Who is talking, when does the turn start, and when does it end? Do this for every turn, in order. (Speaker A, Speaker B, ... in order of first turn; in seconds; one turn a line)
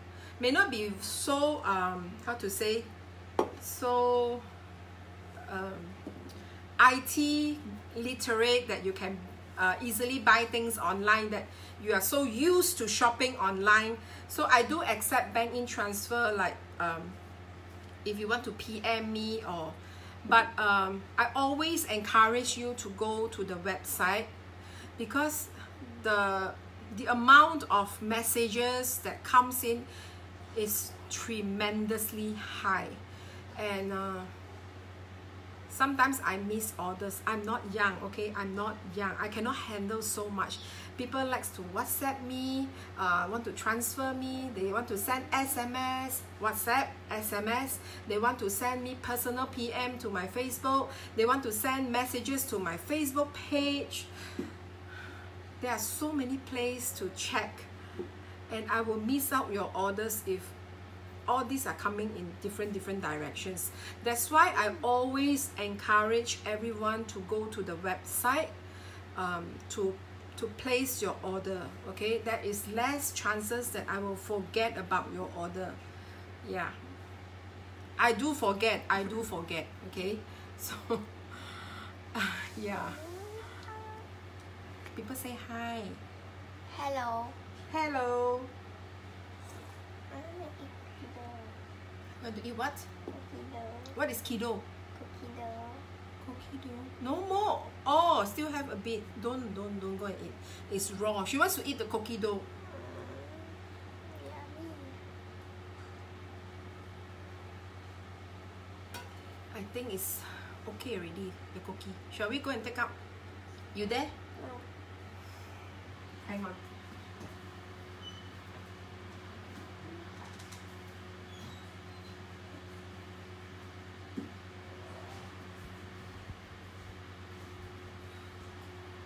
Speaker A: 0.4-2.9
Speaker A: 3.6-4.5
Speaker A: 5.4-6.0
Speaker A: 6.8-17.2
Speaker A: 18.0-24.3
Speaker A: 25.0-29.9
Speaker A: 30.5-33.0
Speaker A: 33.5-34.3
Speaker A: 35.7-54.1
Speaker A: 55.6-57.7
Speaker A: 58.5-60.5
Speaker A: 61.3-68.5
Speaker A: 69.1-75.8
Speaker A: 76.4-76.8
Speaker A: 78.0-83.0
Speaker B: 82.7-84.0
Speaker A: 84.9-86.0
Speaker B: 86.7-87.4
Speaker A: 87.7-88.5
Speaker B: 90.1-91.6
Speaker A: 92.2-92.9
Speaker B: 93.1-94.0
Speaker A: 94.0-94.6
Speaker B: 94.9-95.8
Speaker A: 96.2-102.5
Speaker B: 102.6-105.0
Speaker A: 109.5-112.9
Speaker A: 113.7-114.1
Speaker B: 114.3-114.7
Speaker A: 116.2-116.6
Speaker B: 119.8-120.1